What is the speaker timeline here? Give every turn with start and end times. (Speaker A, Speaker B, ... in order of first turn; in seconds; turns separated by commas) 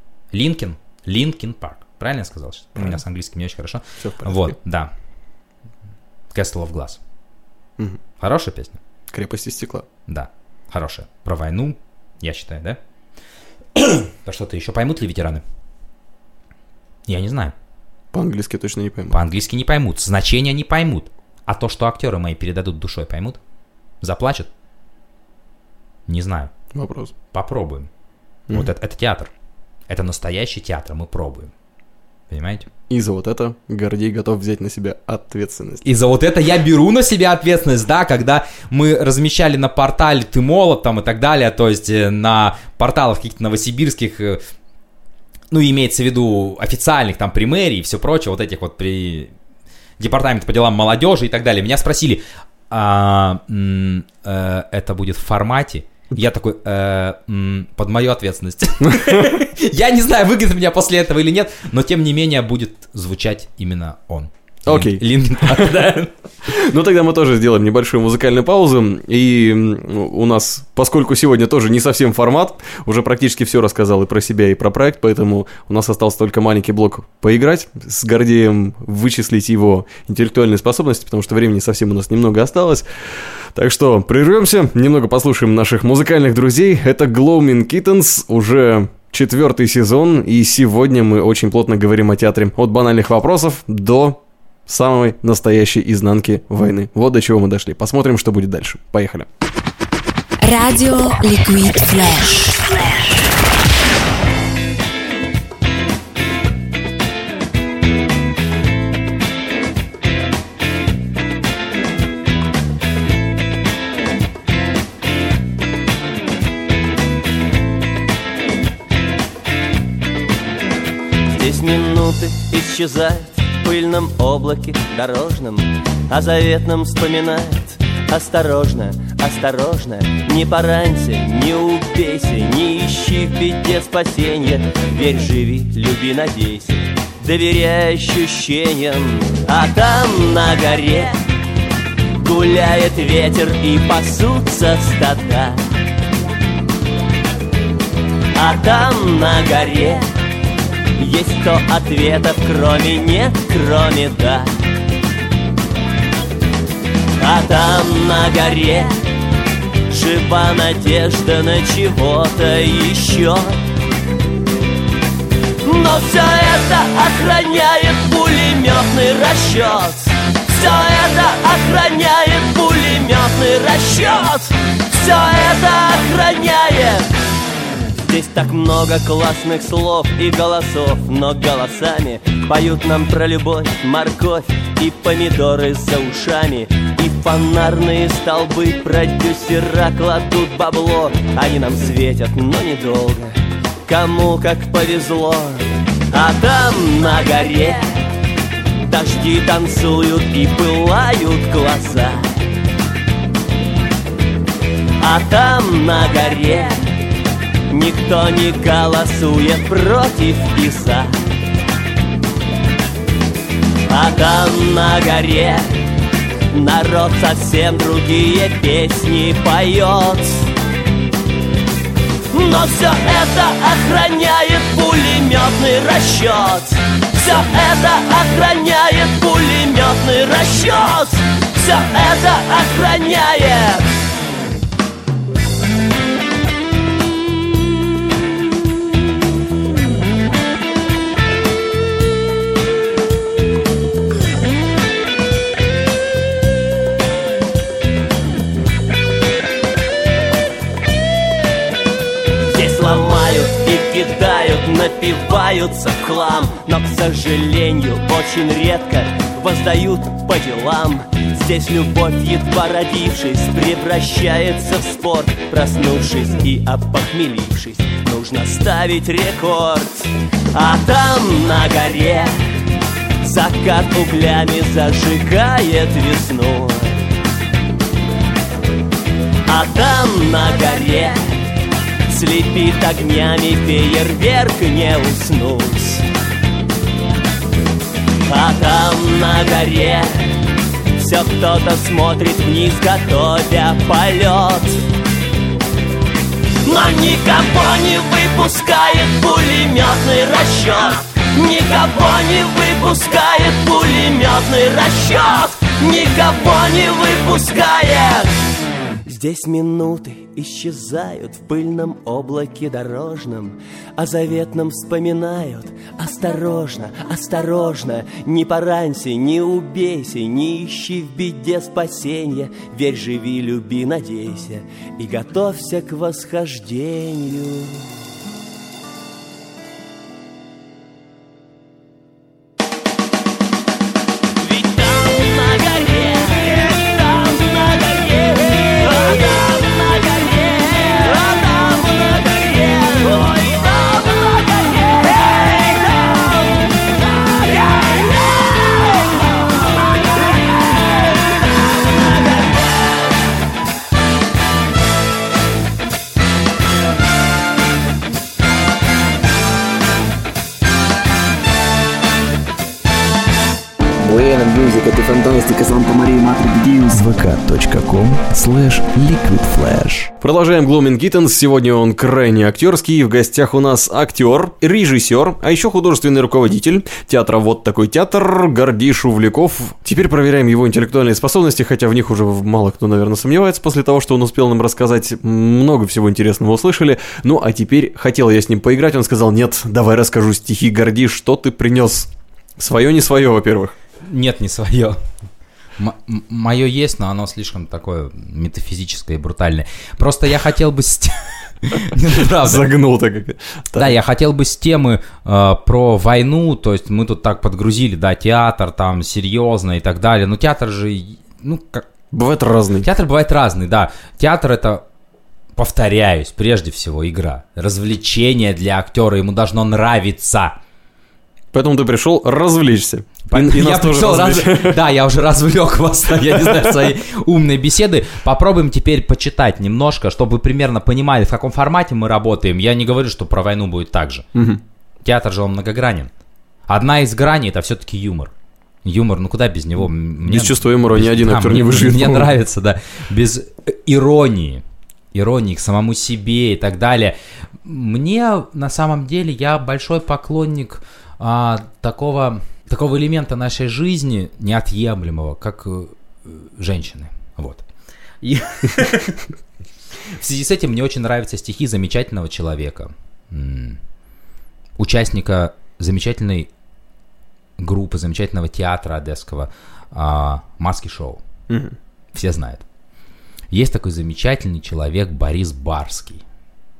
Speaker A: 0.3-4.9, Speaker B: 4.0-4.6, Speaker A: 6.3-7.0, Speaker A: 8.2-8.8, Speaker B: 9.1-9.9, Speaker A: 10.1-12.8, Speaker A: 13.8-15.4, Speaker A: 17.1-17.5, Speaker B: 18.1-19.2, Speaker A: 19.1-23.4, Speaker A: 24.0-24.5, Speaker A: 26.1-26.5, Speaker B: 26.7-27.1, Speaker A: 27.3-27.9, Speaker A: 28.5-29.3, Speaker A: 29.9-31.5, Speaker A: 32.3-32.7, Speaker B: 32.9-35.8, Speaker A: 35.8-44.4, Speaker A: 45.5-49.3, Speaker A: 50.0-66.1, Speaker B: 58.8-59.4, Speaker B: 64.7-65.9, Speaker B: 66.4-99.3, Speaker C: 100.4-102.7, Speaker D: 121.2-141.1, Speaker D: 142.2-145.6, Speaker D: 148.3-150.0, Speaker D: 151.0-154.5, Speaker D: 157.2-158.9, Speaker D: 159.9-163.6, Speaker D: 165.6-177.1, Speaker D: 178.0-193.3, Speaker D: 193.9-197.8, Speaker D: 198.9-202.3, Speaker D: 205.0-206.8, Speaker D: 207.7-211.1, Speaker D: 213.9-215.7, Speaker D: 216.5-220.5, Speaker D: 222.3-233.9, Speaker D: 252.5-272.3, Speaker D: 273.2-277.0, Speaker D: 279.5-281.2, Speaker D: 282.1-286.0, Speaker D: 288.3-290.3, Speaker D: 291.0-294.8, Speaker D: 296.6-308.4, Speaker D: 309.1-327.9, Speaker D: 334.4-346.4, Speaker D: 347.3-348.9, Speaker E: 364.0-370.1, Speaker B: 370.2-393.7, Speaker A: 394.0-395.0, Speaker A: 395.8-402.7, Speaker B: 402.1-403.9, Speaker A: 403.7-411.9, Speaker B: 412.1-412.9, Speaker A: 412.8-414.8, Speaker A: 415.6-420.6, Speaker B: 421.5-424.8, Speaker A: 423.3-434.3, Speaker B: 426.3-426.8, Speaker B: 434.4-434.6, Speaker A: 435.0-436.1, Speaker A: 436.7-438.3, Speaker A: 438.9-457.7, Speaker B: 439.8-442.3, Speaker A: 458.2-459.1, Speaker A: 460.2-463.8, Speaker A: 464.8-466.5, Speaker A: 467.6-471.2, Speaker B: 471.5-471.7, Speaker A: 472.1-472.6, Speaker A: 473.5-476.2